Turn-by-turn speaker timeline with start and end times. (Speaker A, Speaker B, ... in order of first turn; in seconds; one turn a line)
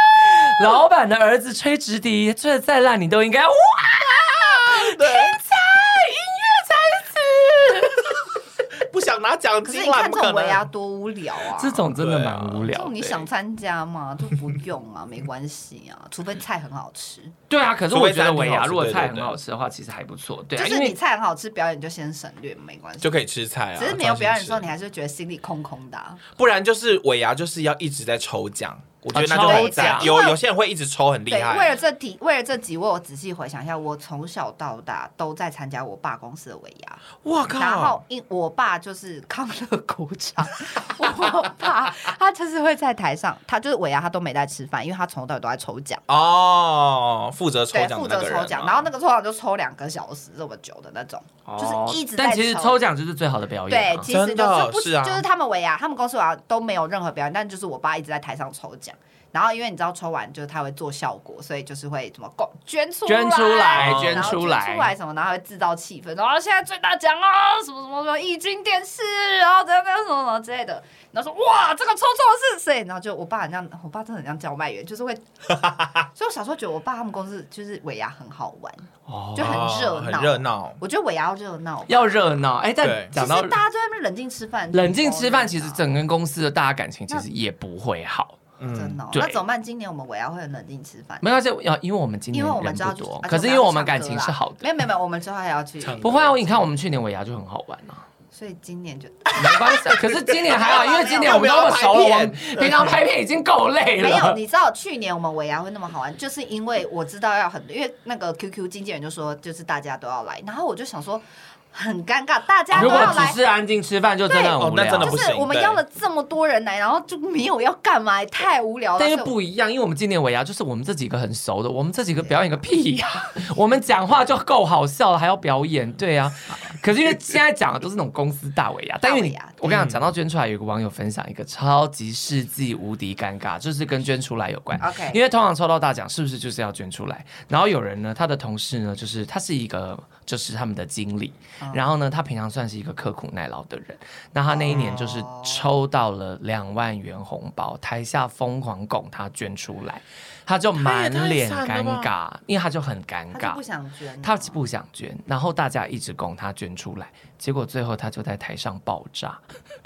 Speaker A: 0.3-8.1
Speaker B: 4.7-5.3
Speaker B: 8.8-10.7
Speaker C: 9.6-11.8
Speaker A: 11.6-13.2
Speaker B: 11.9-12.7
Speaker C: 12.7-17.3
Speaker A: 17.5-21.0
Speaker B: 17.9-19.4
Speaker C: 20.6-23.2
Speaker B: 23.0-24.7
Speaker C: 23.8-26.2
Speaker B: 26.4-31.8
Speaker A: 29.1-30.1
Speaker C: 29.3-30.4
Speaker C: 31.3-37.0
Speaker B: 37.2-38.0
Speaker C: 37.5-46.0
Speaker B: 46.1-48.9
Speaker C: 47.7-52.8
Speaker A: 51.5-54.1
Speaker C: 53.7-75.2
Speaker B: 54.1-55.2
Speaker A: 63.0-64.9
Speaker B: 63.7-64.3
Speaker C: 76.0-82.4
Speaker A: 79.1-79.7
Speaker B: 79.4-80.8
Speaker A: 81.9-83.5
Speaker B: 82.8-83.1
Speaker C: 83.1-85.8
Speaker A: 84.7-88.4
Speaker B: 88.6-89.0
Speaker C: 88.7-91.2
Speaker A: 89.1-89.4
Speaker A: 91.2-94.7
Speaker C: 92.3-96.1
Speaker B: 95.8-96.4
Speaker A: 96.0-98.0
Speaker C: 98.3-101.7
Speaker A: 99.3-104.4
Speaker B: 100.3-103.0
Speaker C: 104.0-113.4
Speaker B: 112.7-113.3
Speaker A: 112.7-115.2
Speaker C: 114.3-119.3
Speaker B: 114.5-115.8
Speaker A: 119.0-153.6
Speaker C: 129.0-129.6
Speaker B: 129.7-130.0
Speaker C: 134.8-135.2
Speaker C: 141.6-141.8
Speaker C: 144.5-145.6
Speaker B: 150.8-152.1
Speaker C: 153.3-154.6
Speaker A: 154.2-159.4